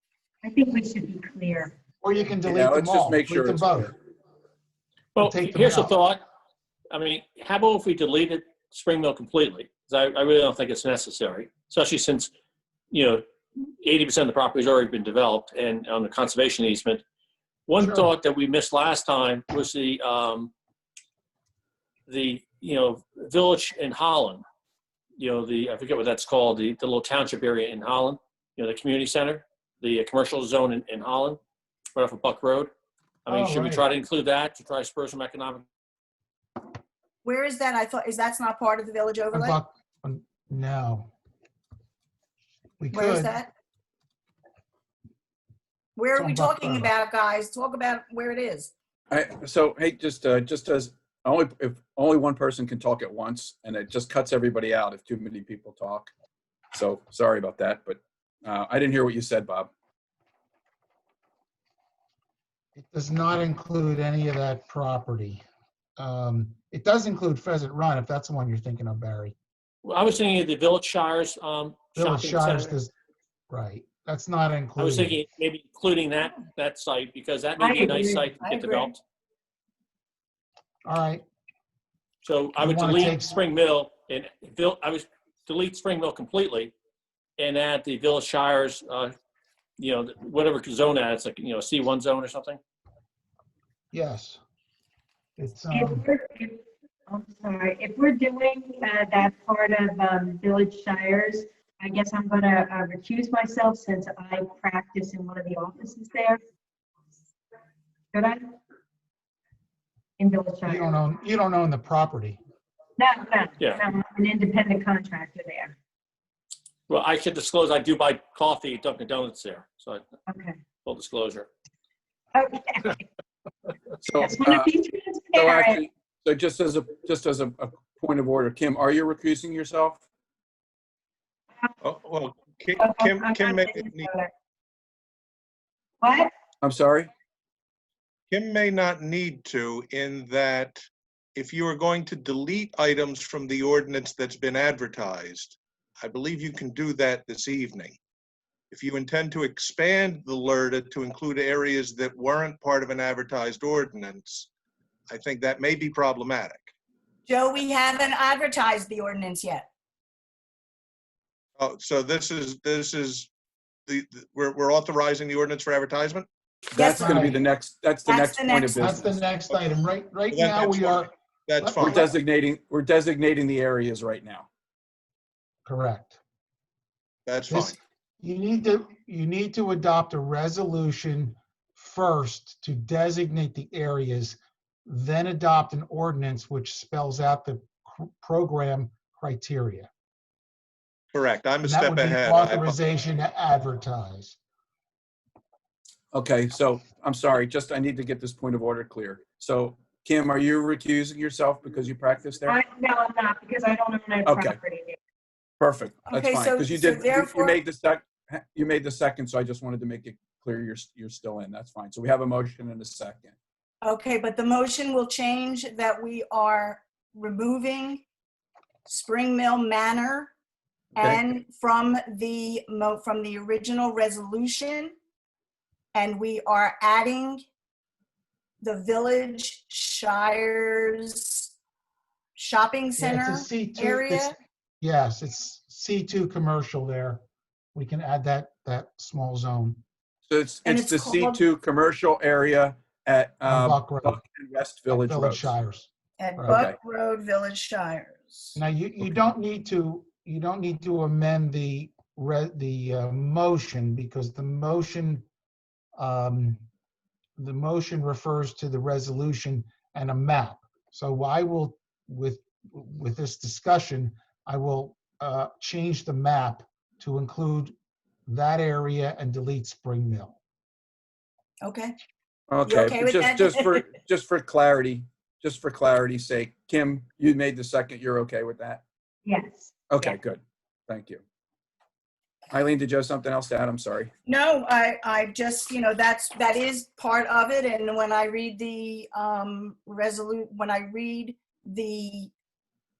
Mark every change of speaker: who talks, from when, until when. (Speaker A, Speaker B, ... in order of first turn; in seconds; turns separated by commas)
Speaker A: 0.4-1.7, Speaker B: 2.0-3.9, Speaker C: 2.4-3.9, Speaker D: 5.2-6.2, Speaker B: 5.2-5.9, Speaker D: 6.9-12.3, Speaker D: 12.9-17.0, Speaker D: 17.7-20.5, Speaker B: 17.8-18.1, Speaker D: 22.1-24.4, Speaker D: 25.2-31.4, Speaker D: 31.9-32.7, Speaker D: 33.2-35.6, Speaker B: 33.3-33.8, Speaker E: 37.2-39.6, Speaker B: 39.3-41.1, Speaker B: 42.8-43.4, Speaker E: 42.9-43.5, Speaker E: 46.0-48.7, Speaker B: 46.1-46.9, Speaker C: 49.1-56.1, Speaker C: 56.7-59.7, Speaker B: 62.7-65.4, Speaker B: 66.0-69.3, Speaker D: 69.8-72.7, Speaker B: 71.9-72.9, Speaker B: 73.5-75.2, Speaker D: 74.8-79.0, Speaker A: 77.6-78.3, Speaker E: 78.3-78.9, Speaker B: 80.8-81.2, Speaker D: 82.2-86.7, Speaker B: 82.6-83.4, Speaker D: 87.4-89.1, Speaker D: 89.8-92.6, Speaker B: 93.9-94.4, Speaker B: 95.4-96.0, Speaker A: 95.7-106.4, Speaker A: 108.1-108.4, Speaker A: 110.2-111.0, Speaker B: 110.7-112.4, Speaker A: 113.0-115.7, Speaker D: 116.9-120.0, Speaker A: 120.3-120.6, Speaker D: 120.8-121.5, Speaker A: 122.3-123.0, Speaker C: 124.0-124.7, Speaker A: 124.2-125.8, Speaker C: 125.3-130.0, Speaker F: 131.8-134.1, Speaker A: 132.7-134.3, Speaker A: 136.0-136.3, Speaker C: 136.6-137.1, Speaker F: 138.3-140.8, Speaker F: 141.3-148.0, Speaker F: 148.7-154.5, Speaker F: 155.1-156.7, Speaker E: 157.3-159.7, Speaker F: 161.6-163.3, Speaker F: 163.9-166.3, Speaker C: 166.7-169.2, Speaker E: 166.8-167.1, Speaker B: 166.9-167.4, Speaker E: 168.1-168.9, Speaker B: 168.8-171.1, Speaker F: 170.3-172.1, Speaker B: 171.6-172.1, Speaker C: 171.8-174.5, Speaker B: 175.6-176.2, Speaker F: 177.2-177.8, Speaker B: 177.5-189.9, Speaker F: 191.1-192.8, Speaker B: 191.6-194.4, Speaker C: 196.1-202.6, Speaker A: 202.4-205.0, Speaker C: 204.2-204.6, Speaker C: 205.6-213.3, Speaker E: 206.1-207.6, Speaker E: 213.8-218.0, Speaker E: 218.8-220.3, Speaker E: 220.9-224.9, Speaker C: 221.0-221.2, Speaker E: 225.9-227.4, Speaker E: 228.6-231.5, Speaker E: 232.3-234.3, Speaker B: 233.0-234.3, Speaker B: 234.8-237.2, Speaker B: 237.7-239.8, Speaker C: 240.3-245.5, Speaker E: 240.6-241.4, Speaker B: 243.5-244.2, Speaker B: 244.9-246.6, Speaker E: 246.2-248.6, Speaker C: 246.5-246.8, Speaker B: 248.5-255.2, Speaker B: 256.0-256.6, Speaker B: 257.4-267.7, Speaker B: 268.3-270.4, Speaker E: 271.6-271.9, Speaker C: 272.5-278.8, Speaker E: 272.6-273.8, Speaker A: 279.2-280.1, Speaker C: 279.9-281.2, Speaker C: 282.5-284.1, Speaker E: 284.2-292.3